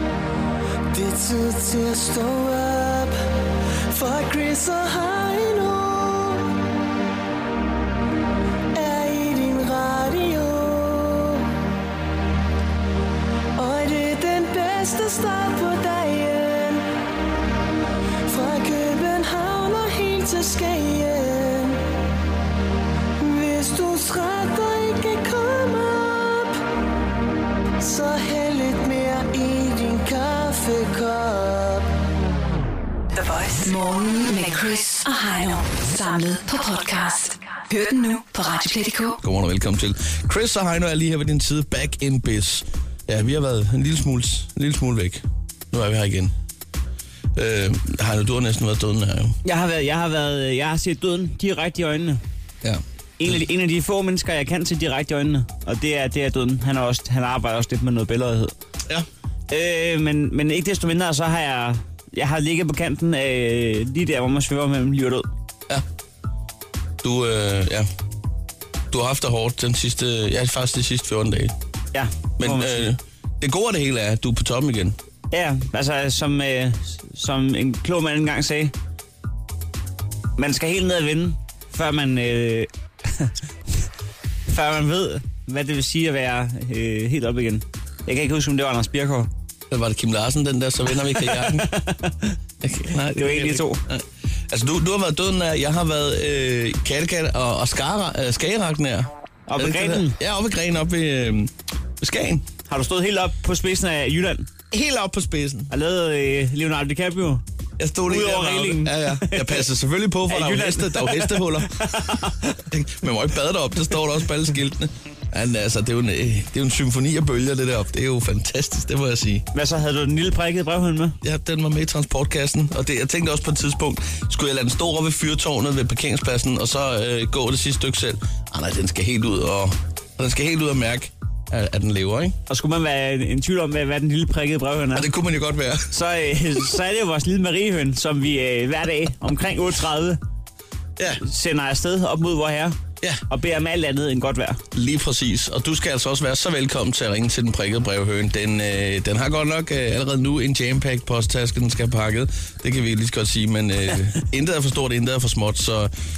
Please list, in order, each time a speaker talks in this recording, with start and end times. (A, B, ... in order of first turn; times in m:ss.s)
0:00.9-0:03.1 A
0:03.9-0:06.5 A
0:08.7-0:11.5 A
0:13.6-0:16.9 A
0:18.3-0:21.8 A
0:23.2-0:26.6 A
0:27.8-0:31.9 A
0:33.1-0:39.2 B
0:39.2-0:46.3 C
0:47.3-0:49.4 C
0:49.4-0:52.2 D
0:52.6-0:53.4 C
0:53.2-0:58.5 D
0:59.5-1:05.3 D
1:07.0-1:07.9 C
1:08.9-1:11.5 C
1:11.9-1:12.9 D
1:12.4-1:15.0 C
1:15.3-1:18.7 D
1:20.4-1:23.3 D
1:24.5-1:29.3 D
1:29.7-1:31.7 C
1:31.0-1:32.4 D
1:32.6-1:42.4 C
1:33.1-1:33.8 D
1:39.5-1:40.2 D
1:42.7-1:44.5 D
1:44.7-1:45.7 C
1:45.7-1:47.4 D
1:47.8-1:51.8 C
1:48.0-1:49.7 D
1:50.3-1:52.6 D
1:52.7-1:59.4 C
1:59.5-2:01.2 D
2:01.2-2:12.4 C
2:12.5-2:15.1 D
2:14.9-2:15.9 C
2:15.9-2:20.2 D
2:21.2-2:22.8 D
2:23.3-2:24.6 D
2:24.7-2:35.9 C